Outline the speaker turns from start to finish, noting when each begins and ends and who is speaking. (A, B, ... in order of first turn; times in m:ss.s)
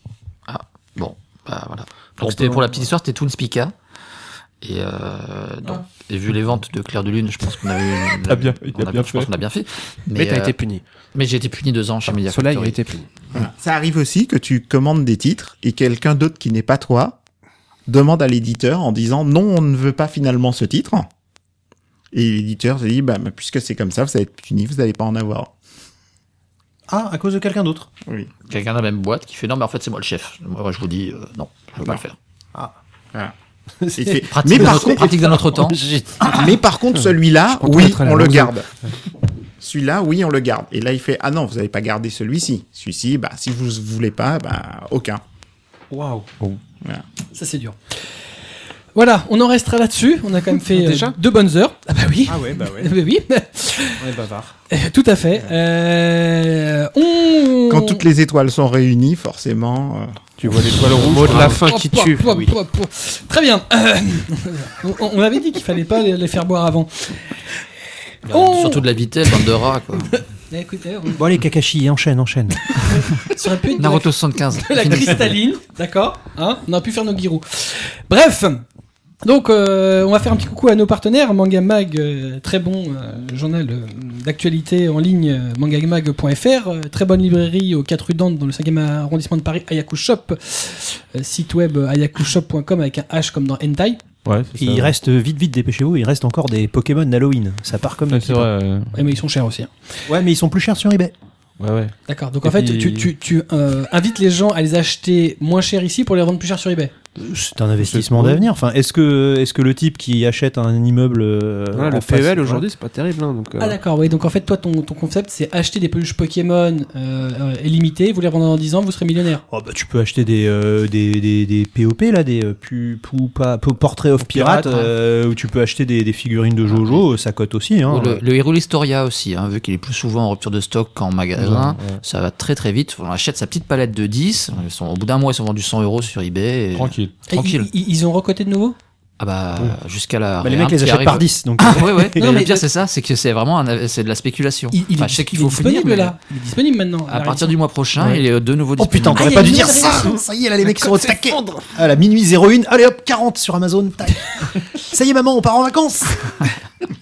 0:00.5-0:03.7 A
0:02.2-0:02.7 B
0:04.6-0:10.6 A
0:08.3-0:09.3 C
0:10.1-0:10.8 D
0:11.1-0:12.8 A
0:12.1-0:13.1 D
0:13.3-0:17.2 E
0:17.9-0:21.1 E
0:22.1-0:25.5 E
0:26.9-0:27.9 B
0:28.5-0:32.2 A
0:33.8-0:36.6 B
0:34.0-0:35.1 E
0:34.3-0:36.4 A
0:36.2-0:38.7 E
0:36.9-0:38.6 D
0:39.6-0:45.2 E
0:45.9-0:46.3 B
0:47.3-0:48.1 F
0:49.0-0:54.0 F
0:50.7-0:51.2 D
0:52.3-0:53.0 B
0:54.0-0:54.6 B
0:54.7-0:58.0 F
0:57.7-1:00.2 E
1:00.4-1:01.7 C
1:00.8-1:02.3 D
1:01.3-1:07.3 F
1:02.3-1:02.5 B
1:08.3-1:10.1 A
1:08.3-1:09.5 F
1:10.1-1:11.2 F
1:11.2-1:12.8 B
1:12.8-1:18.6 F
1:13.7-1:15.4 A
1:19.2-1:34.0 F
1:34.2-1:35.0 C
1:34.6-1:38.5 B
1:38.1-1:39.1 C
1:38.9-1:39.7 F
1:40.1-1:41.1 B
1:41.6-1:43.1 C
1:42.1-1:46.9 F
1:47.2-1:52.7 B
1:47.8-1:48.5 C
1:51.7-1:53.8 D
1:53.6-1:59.4 F
1:59.5-2:08.2 B
2:04.3-2:04.6 C
2:04.4-2:04.9 A
2:06.7-2:07.0 A
2:07.9-2:17.7 A
2:11.4-2:12.0 C
2:16.7-2:17.2 C
2:17.3-2:18.8 F
2:19.2-2:26.2 A
2:20.4-2:22.6 B
2:24.7-2:27.6 F
2:27.1-2:29.9 A
2:28.8-2:36.6 B
2:29.1-2:30.2 F
2:30.6-2:31.7 D